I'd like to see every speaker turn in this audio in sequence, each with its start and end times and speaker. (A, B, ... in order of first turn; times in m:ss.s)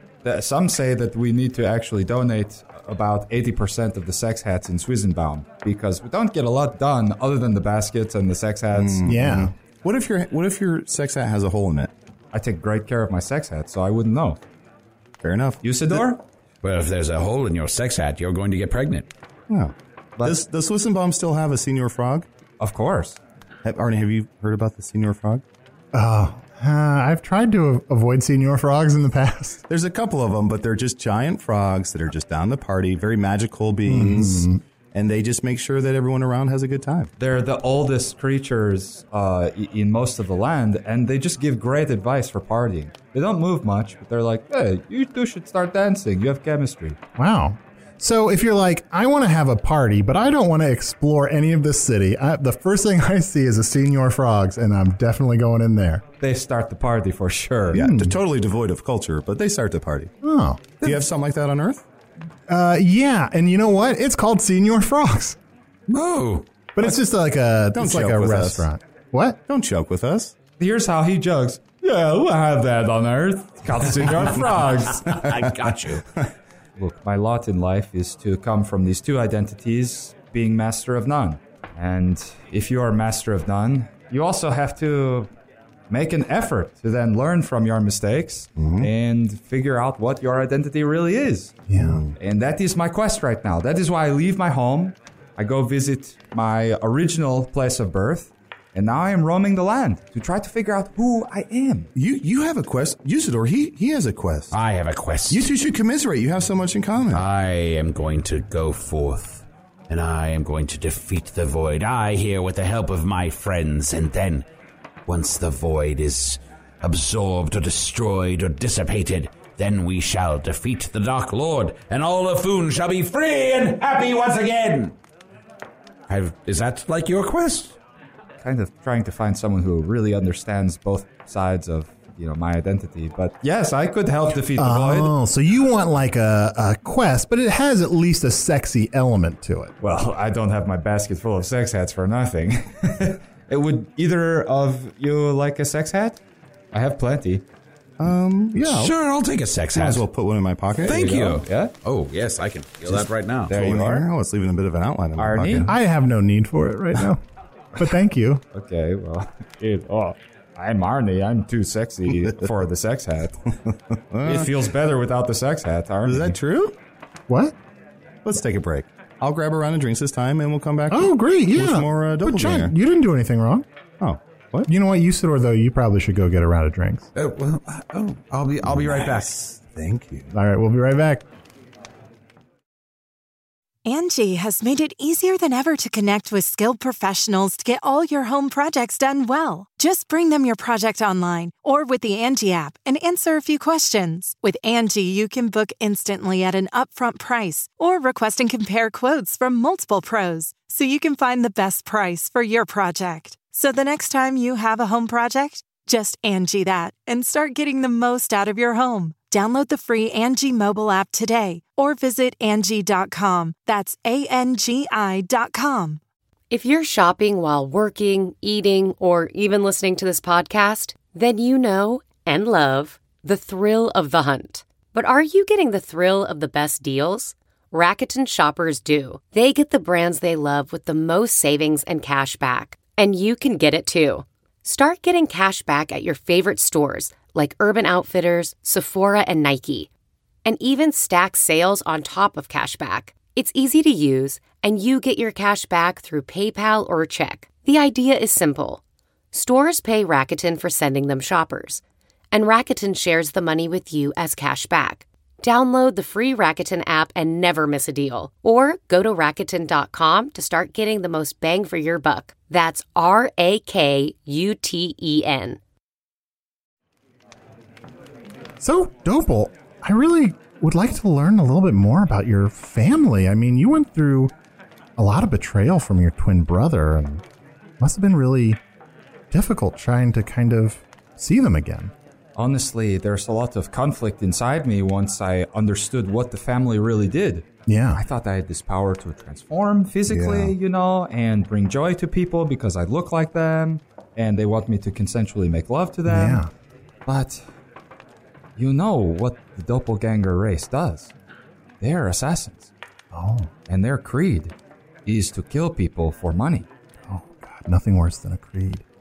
0:00.2-0:09.0 A
0:08.7-0:11.9 B
0:09.0-0:09.5 C
0:12.3-0:14.4 A
0:15.2-0:16.0 B
0:15.6-0:16.2 A
0:16.6-0:19.1 D
0:19.5-0:22.2 B
0:22.6-0:23.2 A
0:23.6-0:25.4 B
0:25.9-0:29.6 C
0:29.7-0:37.1 B
0:33.9-0:34.6 C
0:37.2-0:47.0 A
0:47.2-0:56.0 C
0:56.2-0:57.8 A
0:57.7-1:00.1 B
0:57.7-0:58.2 C
1:00.2-1:00.7 C
1:00.8-1:01.8 B
1:02.5-1:05.4 C
1:05.9-1:06.5 D
1:06.8-1:09.4 C
1:07.7-1:08.6 B
1:09.5-1:10.3 B
1:10.6-1:15.1 A
1:14.1-1:16.0 D
1:16.8-1:25.3 A
1:25.9-1:31.6 A
1:28.6-1:28.9 B
1:31.7-1:32.0 C
1:31.8-1:32.1 B
1:32.2-1:41.9 A
1:42.0-1:44.6 B
1:44.5-1:45.5 D
1:45.3-1:47.2 B
1:47.1-1:54.4 D
1:55.1-2:04.9 D
2:06.1-2:07.8 D
2:08.4-2:15.1 A
2:14.6-2:19.7 C
2:19.8-2:26.2 A
2:26.7-2:27.4 A
2:28.0-2:28.9 B
2:28.6-2:30.0 D
2:29.7-2:31.1 B
2:30.8-2:31.7 A
2:30.8-2:33.5 D
2:32.9-2:35.8 B
2:33.5-2:34.0 A
2:35.2-2:35.7 A
2:35.7-2:37.2 C
2:37.8-2:38.4 C
2:38.5-2:43.4 A
2:44.1-2:44.5 B
2:44.2-2:46.4 A
2:46.0-2:46.7 B
2:47.3-2:47.5 C
2:48.2-2:52.7 B
2:50.9-2:53.6 C
2:54.0-2:54.7 B
2:54.7-2:57.0 C
2:57.2-2:59.3 D
2:58.6-3:00.3 B
3:00.3-3:01.2 C
3:03.8-3:36.0 E
3:36.5-3:59.9 F
4:00.4-4:08.8 F
4:09.3-4:25.6 F
4:28.6-4:34.3 C
4:35.0-4:37.2 C
4:37.8-4:38.6 C
4:39.3-4:41.9 C
4:42.4-4:56.4 A
4:47.7-4:48.0 C
4:50.1-4:50.5 B
4:56.1-4:56.5 C
4:57.0-4:57.4 A
4:58.6-5:01.1 A
5:01.8-5:02.7 A
5:03.1-5:03.5 C
5:03.7-5:04.5 A
5:05.0-5:06.7 A
5:07.1-5:08.8 C